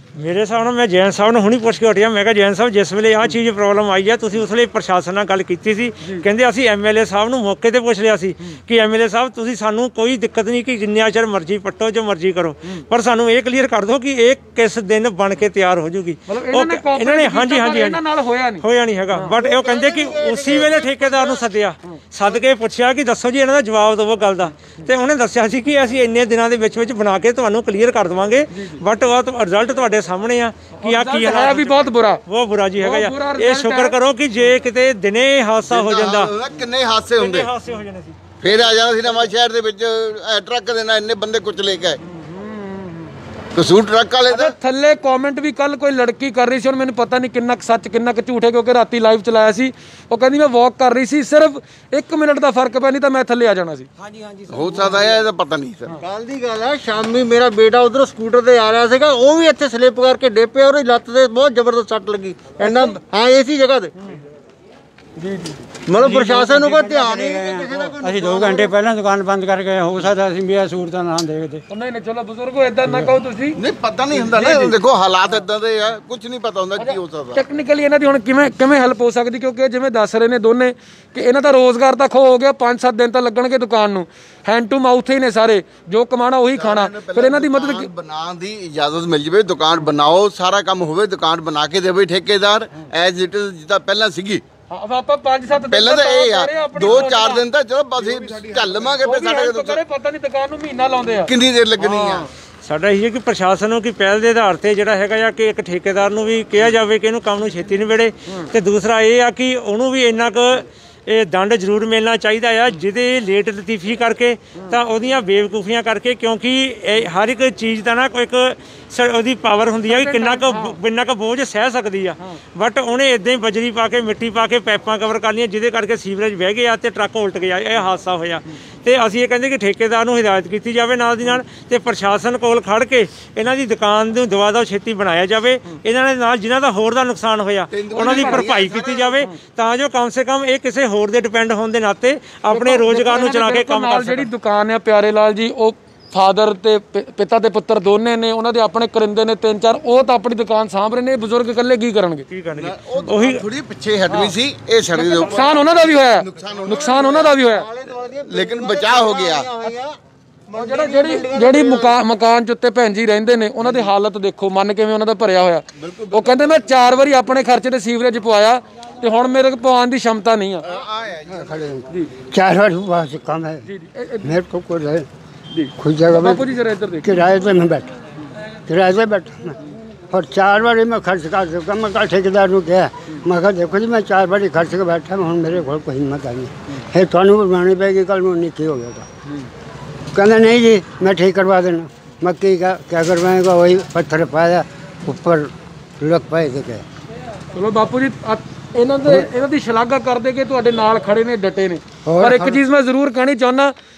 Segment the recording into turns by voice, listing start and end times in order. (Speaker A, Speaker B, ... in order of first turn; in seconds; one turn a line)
Speaker A: 0.2-18.0
Speaker B: 16.3-19.3
Speaker A: 18.6-36.3
Speaker C: 19.3-21.5
Speaker B: 28.5-28.8
Speaker B: 30.8-32.2
Speaker B: 32.8-34.0
Speaker D: 35.7-37.5
Speaker A: 37.2-38.1
Speaker D: 38.4-42.0
Speaker D: 43.5-44.6
Speaker B: 44.3-53.9
Speaker D: 54.5-55.9
Speaker C: 56.0-63.9
Speaker B: 65.2-65.6
Speaker C: 65.9-68.7
Speaker E: 66.0-71.6
Speaker B: 71.7-73.6
Speaker D: 73.6-77.4
Speaker B: 74.3-74.7
Speaker B: 76.8-87.9
Speaker D: 86.6-94.4
Speaker B: 94.7-97.4
Speaker D: 95.7-99.8
Speaker B: 99.0-101.3
Speaker D: 101.2-102.3
Speaker A: 102.6-144.3
Speaker B: 119.9-120.8
Speaker D: 137.7-139.2
Speaker B: 137.9-138.5
Speaker B: 142.5-152.2
Speaker A: 152.3-153.4
Speaker D: 152.6-157.3
Speaker B: 155.0-157.7
Speaker C: 156.9-160.0
Speaker D: 158.3-159.5
Speaker B: 160.5-170.7
Speaker C: 160.8-161.7
Speaker D: 165.8-166.3
Speaker D: 170.7-171.5
Speaker F: 171.3-173.6
Speaker B: 173.7-174.4
Speaker F: 174.2-175.1
Speaker B: 175.5-177.2
Speaker F: 175.8-177.9
Speaker F: 178.7-179.5
Speaker F: 180.1-189.1
Speaker F: 190.2-196.8
Speaker B: 197.6-203.7
Speaker F: 202.1-202.6